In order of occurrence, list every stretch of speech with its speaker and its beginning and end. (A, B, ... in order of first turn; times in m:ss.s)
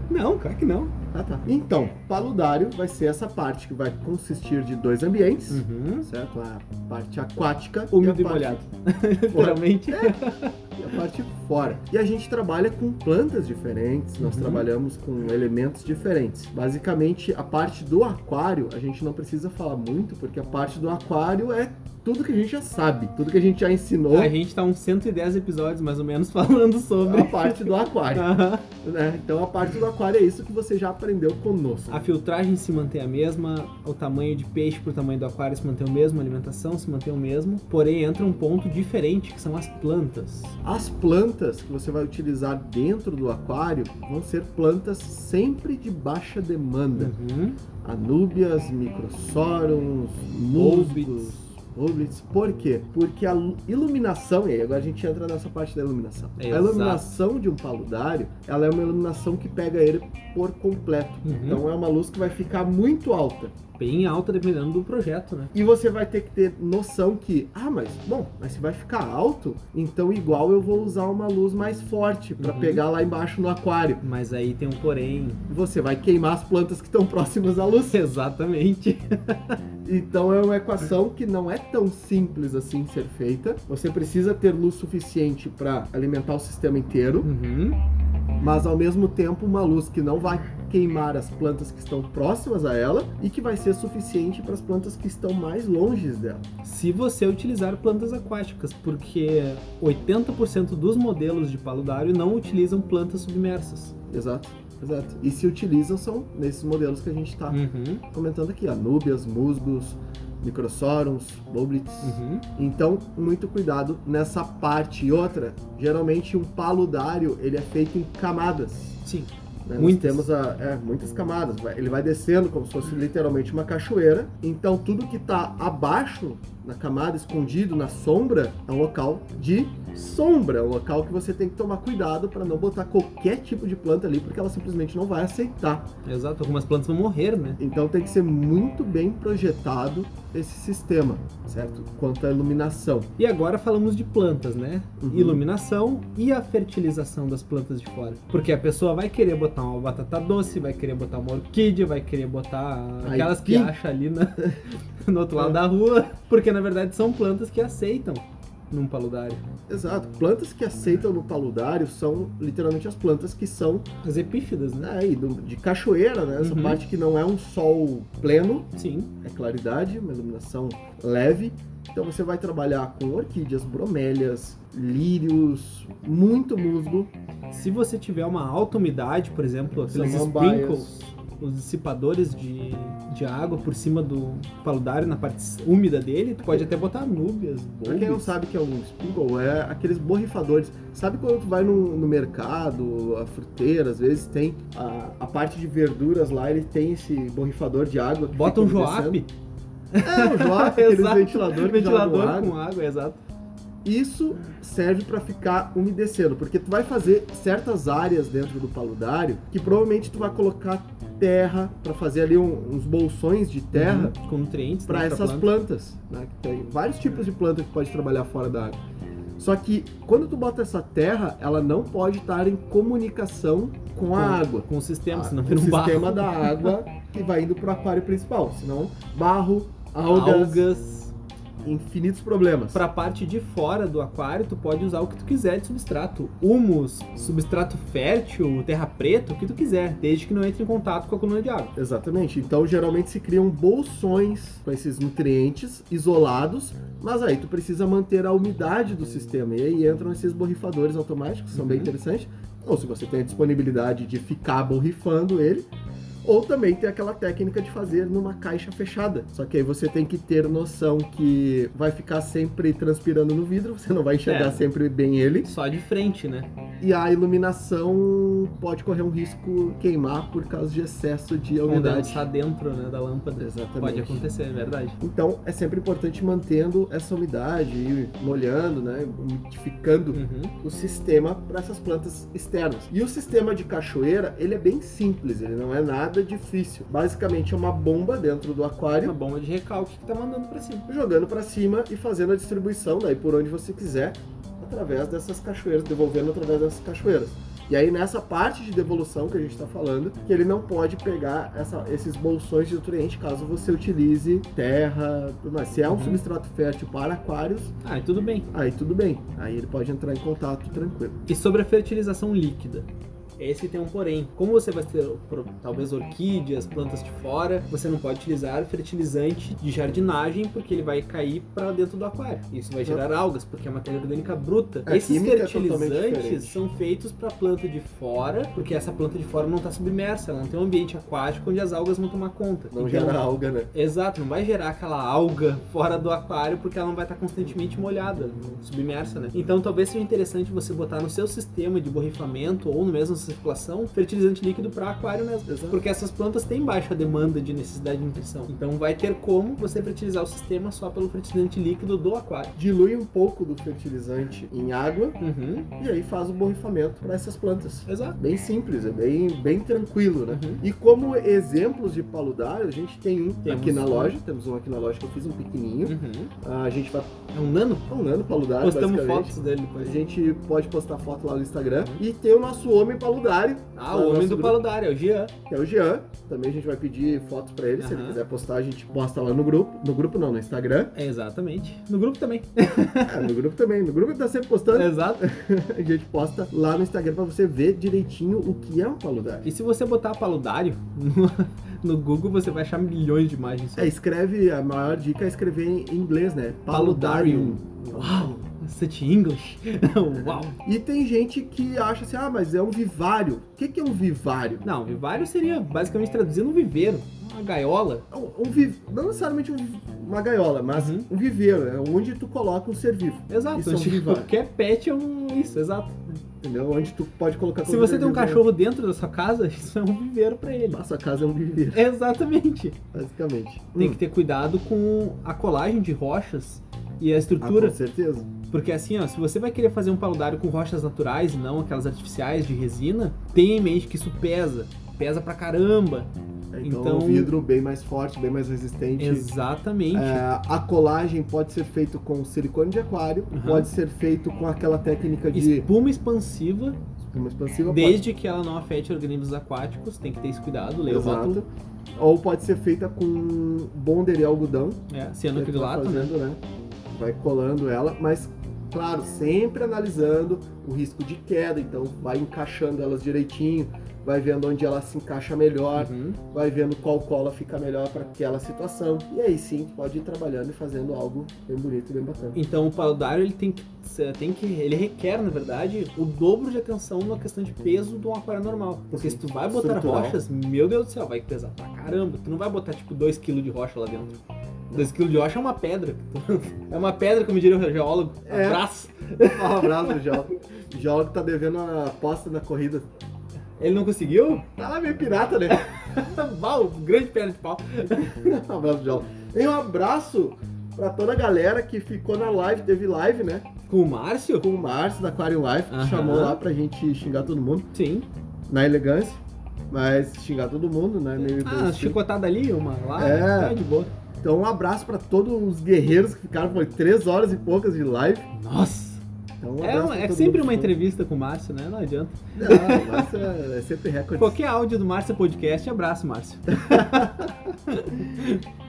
0:00.1-0:00.9 A
0:01.1-0:08.6 B
0:05.5-0:06.1 A
0:07.9-0:10.5 A
0:09.3-0:10.2 B
0:10.8-0:24.3 B
0:14.2-0:14.7 A
0:24.1-0:28.7 A
0:27.0-0:32.0 B
0:31.9-0:40.5 A
0:40.6-0:47.1 B
0:47.0-0:47.6 A
0:47.8-1:03.6 B
0:50.6-0:51.4 A
0:56.4-0:57.1 A
1:01.2-1:01.7 A
1:03.8-1:05.5 A
1:05.5-1:14.0 B
1:12.4-1:12.8 A
1:14.0-1:15.4 A
1:15.5-1:18.0 B
1:17.9-1:19.6 A
1:19.8-1:27.3 B
1:27.2-1:27.8 A
1:28.4-1:36.5 B
1:36.6-1:43.9 A
1:44.1-1:47.6 B
1:47.5-1:48.0 A
1:48.1-1:59.0 B
1:52.0-1:52.5 A
1:59.0-2:00.3 A
1:59.7-2:15.9 B
2:16.0-2:17.6 A
2:17.6-2:23.1 B
2:23.2-2:39.4 A
2:25.0-2:25.4 B
2:33.0-2:33.7 B
2:39.7-2:43.9 B
2:44.0-2:44.9 A
2:44.8-2:48.7 B
2:46.4-2:46.8 A
2:48.7-2:49.1 A
2:49.2-2:57.1 B
2:57.5-3:08.3 A
2:59.9-3:00.9 B
3:06.4-3:06.7 B
3:07.9-3:19.2 B
3:18.3-3:19.3 A
3:20.0-3:23.2 A
3:20.0-3:22.6 B
3:23.8-3:34.2 B
3:33.7-3:35.5 A
3:34.9-3:38.8 B
3:39.4-3:50.7 B
3:44.1-3:46.7 A
3:50.0-3:51.1 A
3:51.6-3:52.8 B
3:52.7-4:01.7 A
4:01.8-4:15.7 B
4:11.5-4:11.9 A
4:16.2-4:25.5 B
4:24.2-4:24.6 A
4:25.4-4:26.5 A
4:26.8-4:32.2 B
4:31.6-4:35.0 A
4:33.4-4:34.3 B
4:35.0-4:49.2 B
4:40.1-4:40.6 A
4:49.0-4:50.9 A
4:50.9-5:07.7 B
5:05.9-5:06.2 A
5:07.8-5:08.5 A
5:08.5-5:11.2 B
5:11.3-5:12.9 A
5:13.4-5:33.2 A
5:24.9-5:26.6 B
5:32.7-5:33.7 B
5:33.7-5:52.6 A
5:45.5-5:45.8 B
5:52.6-5:55.2 B
5:55.2-5:55.7 A
5:55.8-6:07.1 B
5:57.9-5:58.2 A
6:00.3-6:00.6 A
6:03.4-6:04.2 A
6:05.8-6:06.3 A
6:07.3-6:07.8 A
6:07.9-6:14.6 B
6:08.6-6:10.0 A
6:13.8-6:15.3 A
6:15.5-6:20.9 B
6:17.8-6:18.2 A
6:21.0-6:23.3 A
6:23.0-6:29.5 B
6:24.7-6:25.3 A
6:29.4-6:33.9 A
6:33.8-6:38.4 B
6:36.7-6:40.6 A
6:40.5-6:44.6 B
6:44.6-6:48.0 A
6:48.1-6:54.3 B
6:50.8-6:51.1 A
6:53.3-6:56.0 A
6:56.4-6:58.5 B
6:57.6-7:00.8 A
7:00.7-7:01.9 B
7:01.7-7:02.8 A
7:02.9-7:04.0 B
7:03.8-7:07.8 A
7:07.4-7:08.3 B
7:08.5-7:16.1 A
7:16.5-7:19.3 B
7:16.6-7:17.3 A
7:19.0-7:20.3 A
7:19.9-7:25.7 B
7:23.3-7:23.7 A
7:25.3-7:26.8 A
7:27.0-7:28.0 B
7:27.7-7:31.4 A
7:30.9-7:34.8 B
7:34.9-7:36.1 A
7:35.3-7:36.4 B
7:36.9-7:52.4 B
7:45.8-7:46.2 A
7:52.4-8:04.2 A
7:58.9-8:00.2 B
8:04.7-8:10.0 A
8:08.3-8:08.7 B
8:09.2-8:12.9 B
8:13.6-8:14.5 A
8:14.6-8:15.6 B
8:15.5-8:18.1 A
8:17.9-8:23.5 B
8:23.7-8:24.5 A
8:24.4-8:27.7 B
8:25.7-8:26.4 A
8:27.7-8:28.1 A
8:28.5-8:32.0 B
8:31.2-8:33.9 A
8:33.0-8:33.6 B
8:34.2-8:38.3 B
8:38.3-8:39.0 A
8:39.4-8:40.8 B
8:39.6-8:43.1 A
8:42.4-8:44.4 B
8:44.2-8:48.4 A
8:46.5-8:47.3 B